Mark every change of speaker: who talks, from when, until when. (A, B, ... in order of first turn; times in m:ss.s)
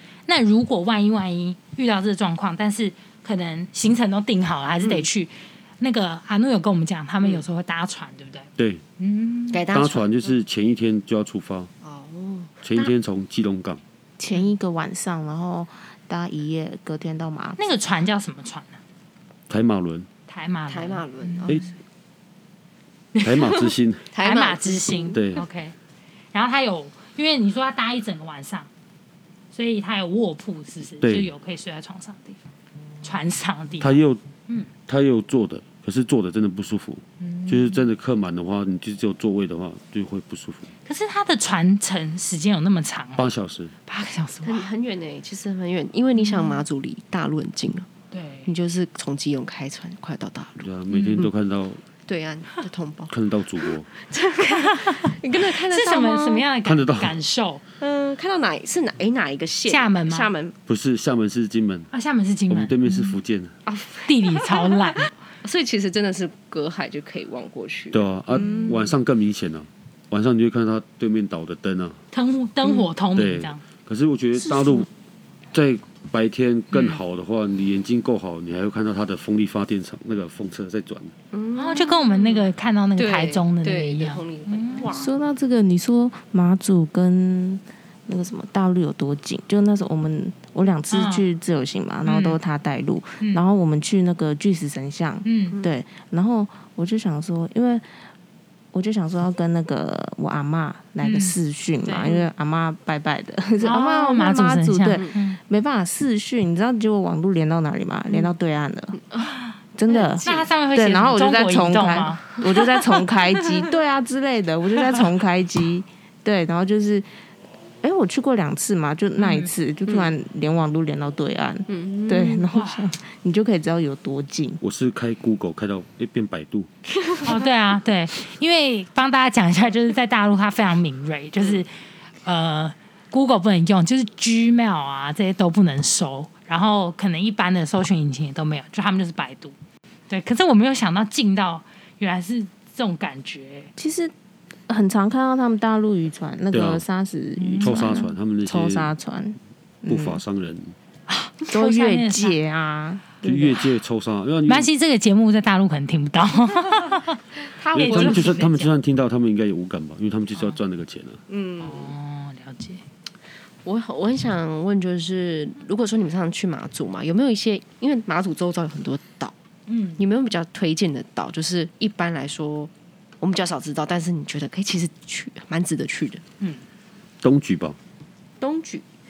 0:00.3-0:09.6 A
0:04.8-0:05.1 B
0:09.5-0:10.3 B
0:09.7-0:11.7 C
0:11.8-0:12.9 B
0:12.6-0:13.8 C
0:14.2-0:17.6 D
0:17.6-0:18.8 A
0:19.5-0:20.1 C
0:20.3-0:21.7 A
0:20.7-0:21.7 B
0:23.1-0:23.6 A
0:23.2-0:24.1 C
0:24.1-0:25.2 B
0:24.2-0:25.8 A
0:25.1-0:25.4 C
0:26.3-0:28.7 A
0:29.5-0:32.4 A
0:31.0-0:31.3 C
0:33.0-0:34.7 A
0:33.8-0:34.2 C
0:34.9-0:40.7 C
0:37.2-0:37.9 A
0:40.8-0:43.3 A
0:43.2-0:43.7 C
0:43.9-0:44.7 A
0:44.4-0:47.9 B
0:46.1-0:46.6 A
0:48.1-0:48.5 A
0:48.5-0:51.3 B
0:50.6-0:51.8 C
0:50.9-0:51.3 A
0:52.0-0:56.5 B
0:53.1-0:53.9 C
0:54.7-0:57.6 A
0:56.6-0:57.2 C
0:57.8-1:00.6 B
0:59.7-1:00.3 A
1:00.7-1:01.9 C
1:01.9-1:03.2 A
1:02.5-1:03.6 C
1:03.6-1:09.0 B
1:04.1-1:05.1 A
1:07.9-1:12.0 C
1:08.4-1:08.7 A
1:12.1-1:13.6 A
1:13.1-1:14.9 C
1:15.5-1:21.1 C
1:16.7-1:17.0 A
1:21.3-1:25.1 B
1:21.6-1:24.9 A
1:24.9-1:37.9 D
1:30.9-1:31.3 A
1:32.0-1:32.4 A
1:35.2-1:35.6 A
1:38.7-1:49.0 D
1:41.0-1:41.4 A
1:41.8-1:42.2 B
1:43.6-1:45.4 A
1:48.9-1:49.3 B
1:49.8-1:57.1 D
1:49.9-1:50.5 B
1:50.2-1:52.2 A
1:52.4-1:53.6 B
1:57.8-2:04.6 D
1:59.2-1:59.5 A
1:59.9-2:00.1 B
2:01.7-2:02.5 B
2:02.5-2:02.9 A
2:04.6-2:06.7 C
2:06.9-2:07.4 B
2:07.2-2:19.6 A
2:20.1-2:23.7 A
2:23.8-2:24.1 D
2:24.7-2:30.2 D
2:26.5-2:26.8 C
2:27.4-2:28.1 A
2:27.6-2:28.9 C
2:29.9-2:30.8 C
2:31.4-2:33.6 D
2:31.5-2:32.4 A
2:33.2-2:34.7 C
2:34.5-2:38.7 A
2:37.5-2:38.5 B
2:37.7-2:41.2 C
2:41.3-2:42.0 B
2:41.6-2:42.8 A
2:43.6-2:49.4 B
2:49.7-2:50.0 A
2:50.0-2:56.2 B
2:57.2-2:57.8 C
2:58.4-2:58.8 B